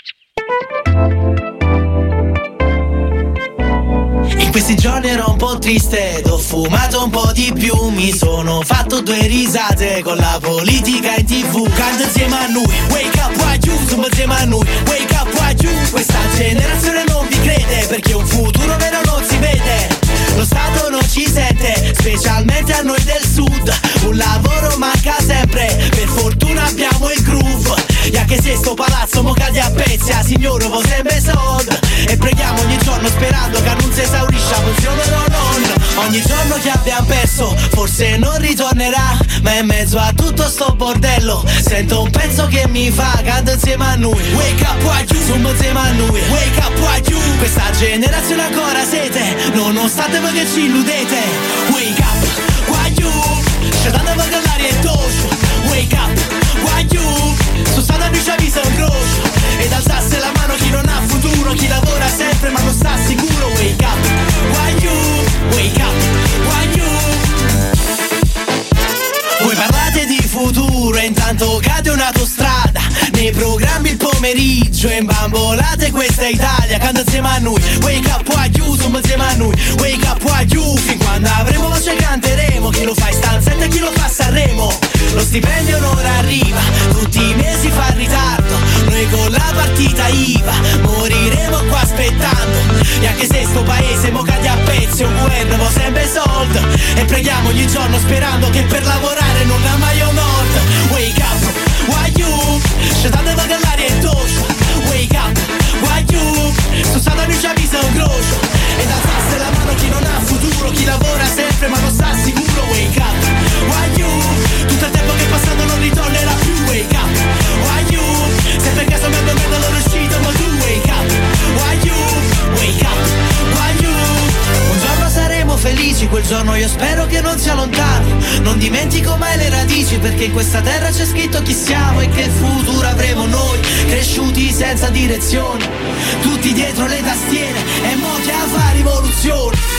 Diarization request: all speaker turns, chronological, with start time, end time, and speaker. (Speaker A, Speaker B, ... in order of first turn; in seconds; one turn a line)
Speaker A: 4.4-67.4
Speaker A: 69.4-139.6